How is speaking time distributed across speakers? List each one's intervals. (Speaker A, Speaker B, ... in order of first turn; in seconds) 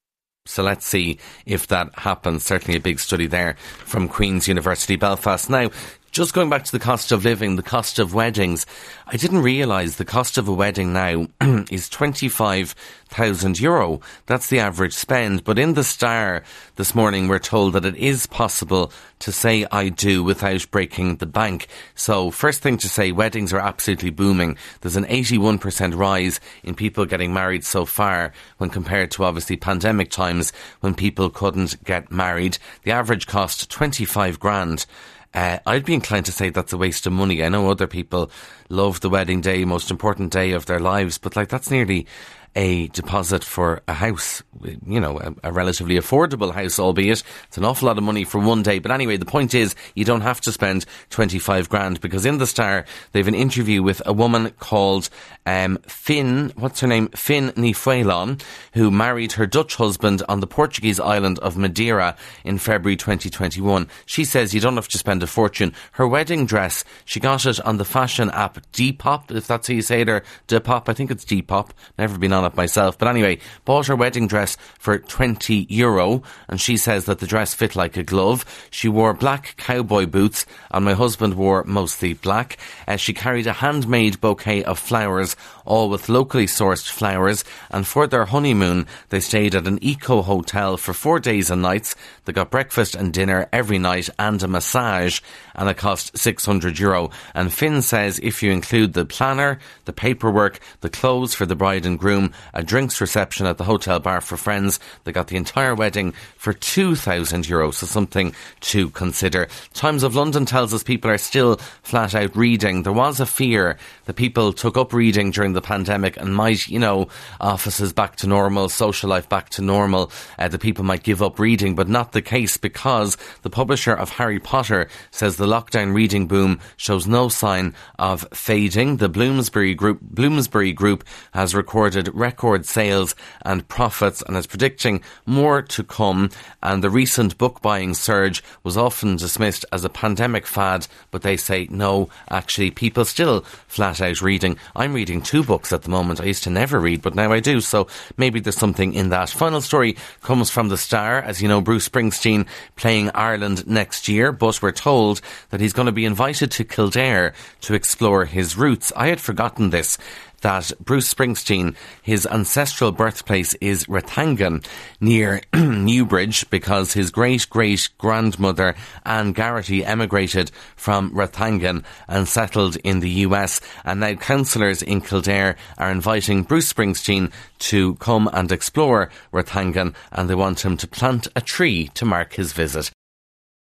Speaker A: 0.5-182.9